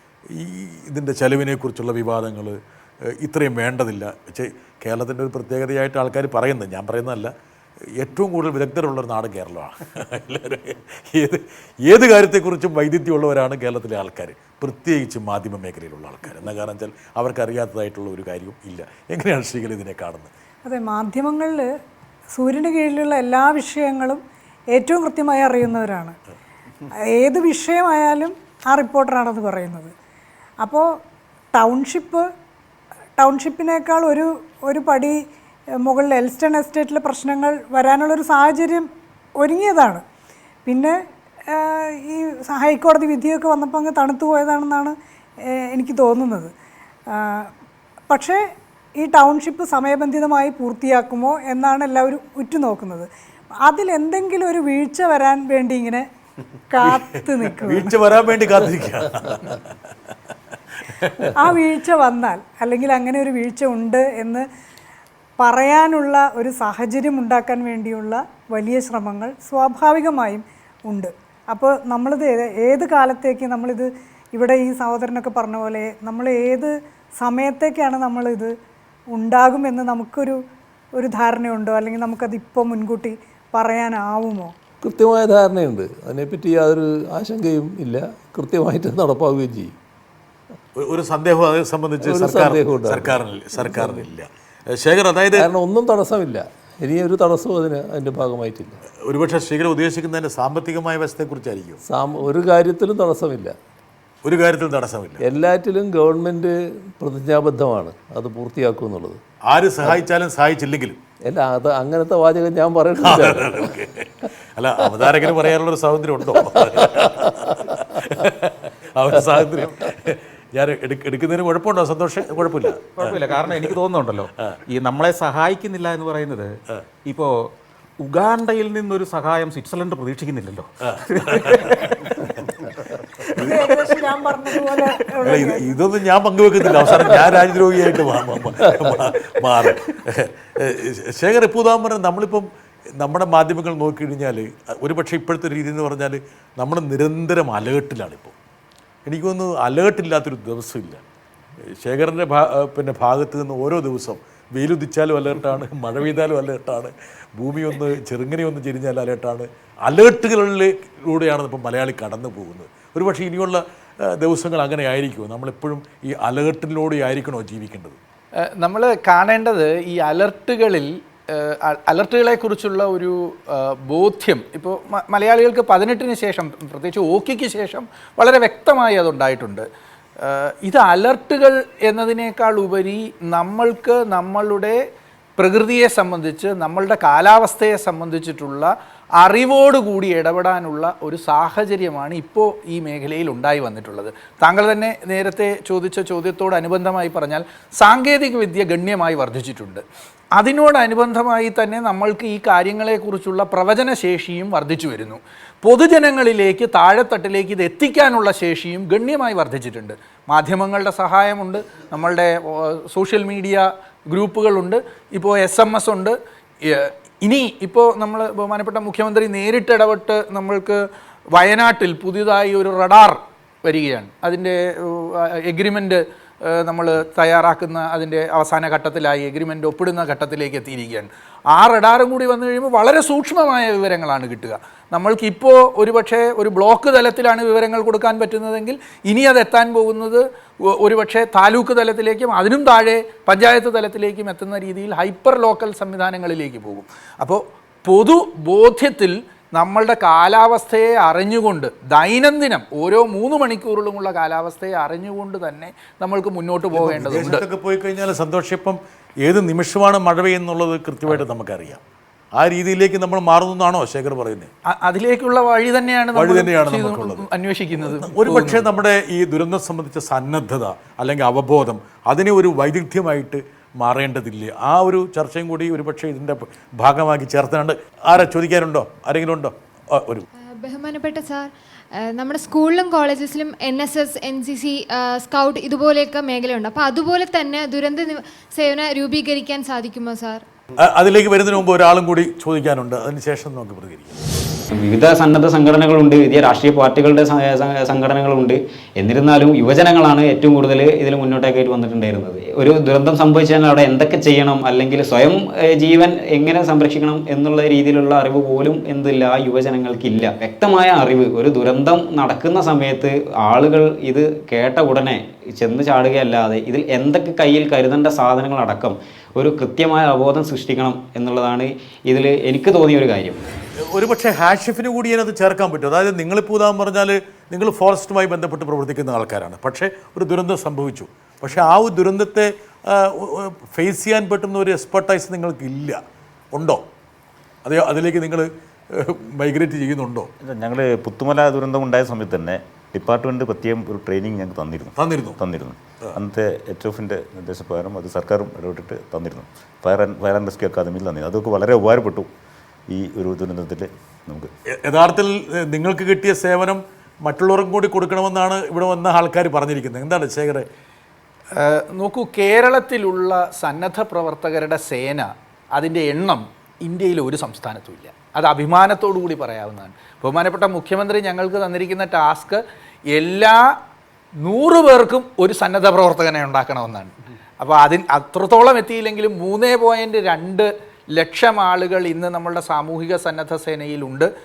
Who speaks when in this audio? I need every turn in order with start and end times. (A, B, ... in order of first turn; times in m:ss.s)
0:00.4-0:02.6 A
0:03.2-0:07.3 A
0:08.0-0:20.3 A
0:20.6-0:21.7 B
0:22.4-0:24.2 B
0:24.7-0:26.2 B
0:27.1-0:29.9 B
0:30.6-0:30.9 B
0:31.5-0:32.3 B
0:33.2-0:35.2 B
0:35.8-0:40.0 B
0:40.7-0:45.0 B
0:45.5-0:46.5 B
0:47.1-0:47.5 B
0:48.1-0:48.4 B
0:49.0-0:53.1 B
0:53.6-0:56.1 B
0:56.7-0:57.9 B
0:57.6-0:59.6 A
1:01.0-1:01.3 A
1:01.3-1:04.5 B
1:05.4-1:18.5 B
1:19.1-1:20.4 B
1:21.0-1:24.6 B
1:24.8-1:29.8 C
1:30.8-1:35.5 A
1:32.0-1:34.1 C
1:35.3-1:38.8 C
1:39.0-1:41.8 A
1:41.9-1:43.6 C
1:44.2-1:45.2 A
1:45.2-1:49.2 C
1:49.5-1:51.0 A
1:51.2-1:53.7 C
1:53.0-2:03.8 A
1:56.5-1:57.5 C
2:02.9-2:12.2 D
2:10.9-2:11.6 A
2:13.4-2:15.8 B
2:13.4-2:14.8 D
2:15.2-2:28.4 A
2:29.1-2:31.0 A
2:31.8-2:48.0 A
2:48.6-2:59.7 E
3:00.2-3:04.8 E
3:05.4-3:19.8 E
3:20.4-3:40.8 E
3:41.4-4:17.4 E
4:16.7-4:21.8 A
4:22.4-4:24.5 A
4:24.7-4:28.6 E
4:26.2-4:27.3 A
4:27.8-4:40.3 A
4:40.4-4:50.4 F
4:50.8-4:54.2 A
4:54.8-5:23.4 G
5:23.9-5:36.0 A
5:36.5-5:36.8 A
5:37.6-5:40.3 A
5:40.4-5:52.3 H
5:45.0-5:45.4 A
5:52.9-5:54.5 H
5:54.8-6:00.7 A
6:01.6-6:12.6 E
6:13.1-6:13.7 E
6:14.4-6:24.3 E